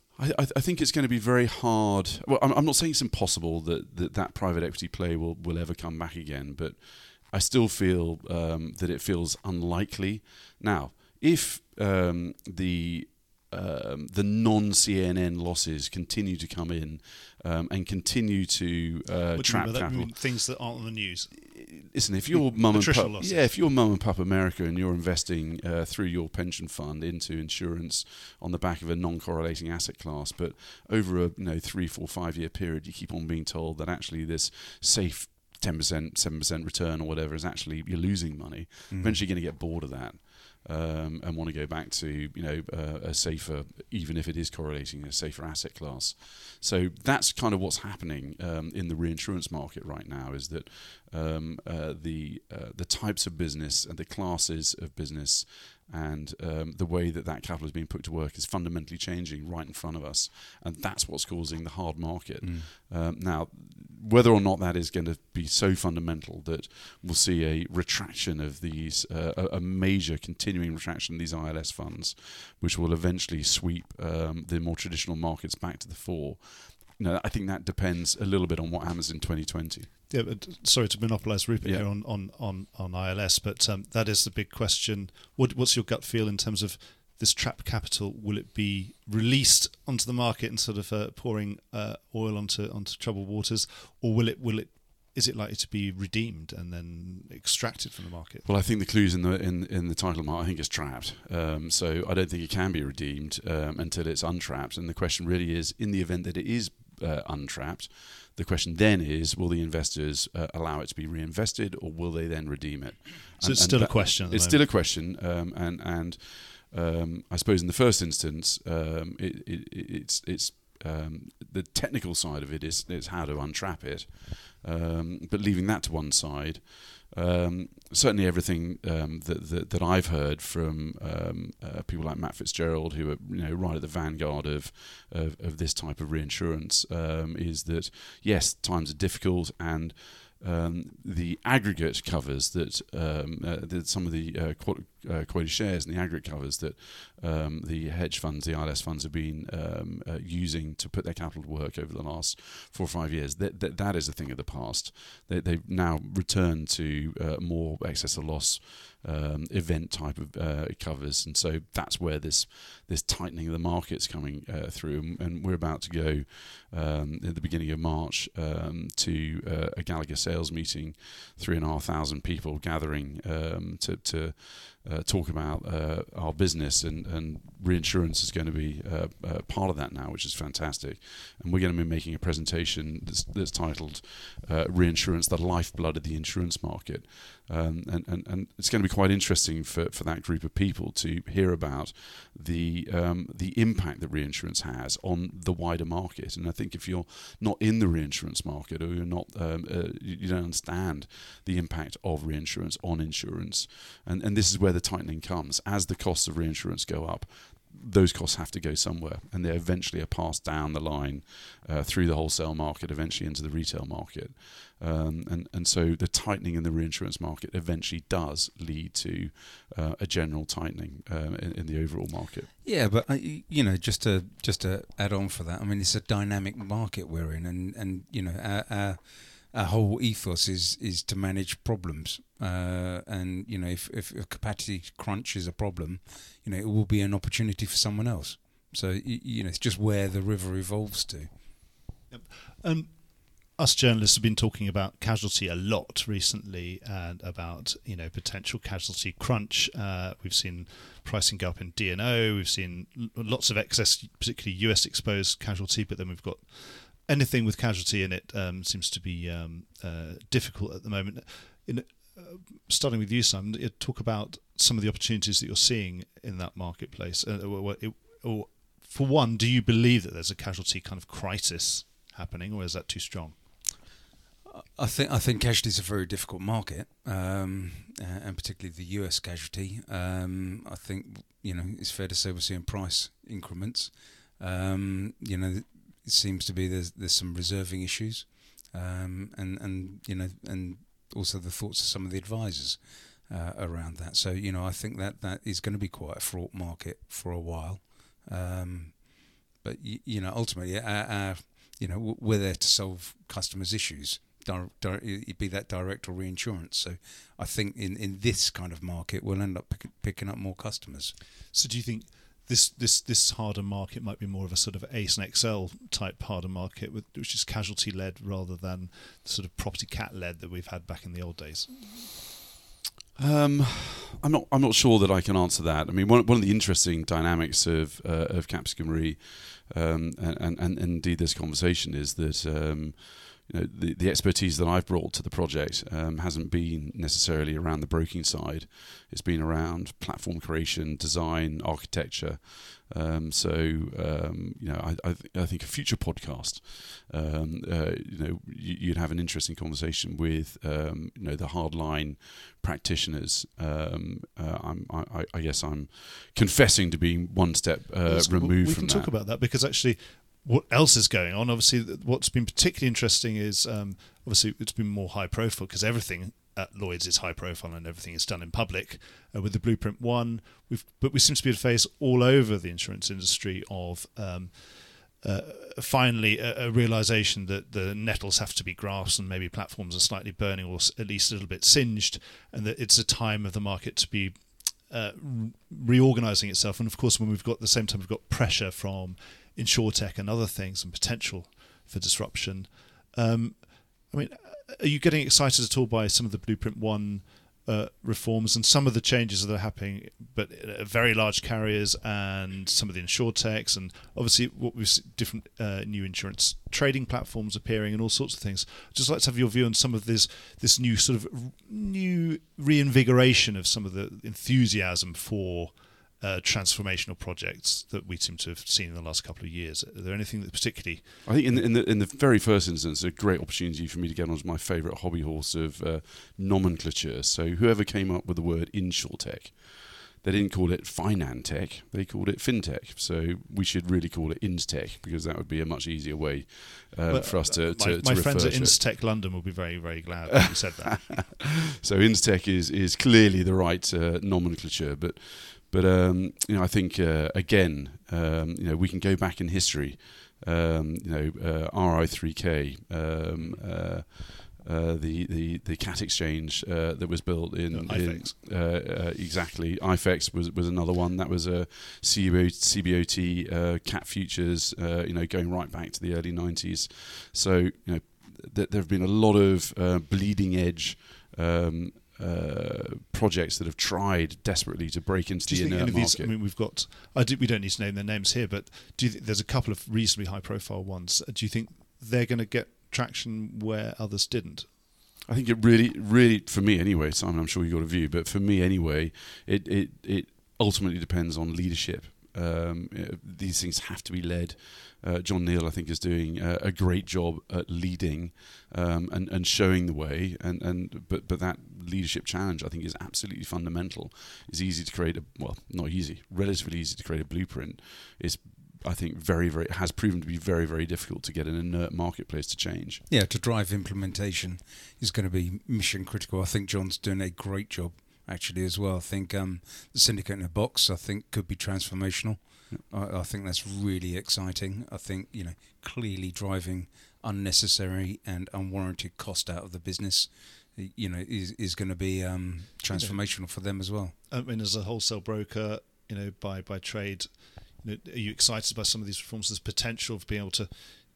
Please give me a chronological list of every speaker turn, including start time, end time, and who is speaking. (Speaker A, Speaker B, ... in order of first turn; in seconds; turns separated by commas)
Speaker A: 0.2-20.2, Speaker B: 19.4-21.7, Speaker A: 21.4-79.9, Speaker B: 22.3-23.5, Speaker C: 38.9-39.2, Speaker C: 62.4-62.7, Speaker B: 80.1-98.5, Speaker A: 81.6-81.9, Speaker A: 98.5-222.5, Speaker B: 113.4-114.6, Speaker C: 222.6-241.3, Speaker B: 242.1-242.9, Speaker B: 243.6-273.4, Speaker C: 274.5-311.1, Speaker B: 311.5-322.2, Speaker A: 323.2-359.1, Speaker B: 358.1-421.6, Speaker A: 421.2-438.8, Speaker B: 437.1-441.3, Speaker A: 440.9-476.3, Speaker B: 457.7-458.4, Speaker B: 475.5-484.7, Speaker A: 485.3-513.0, Speaker C: 513.1-534.2, Speaker B: 532.9-533.2, Speaker B: 534.3-541.0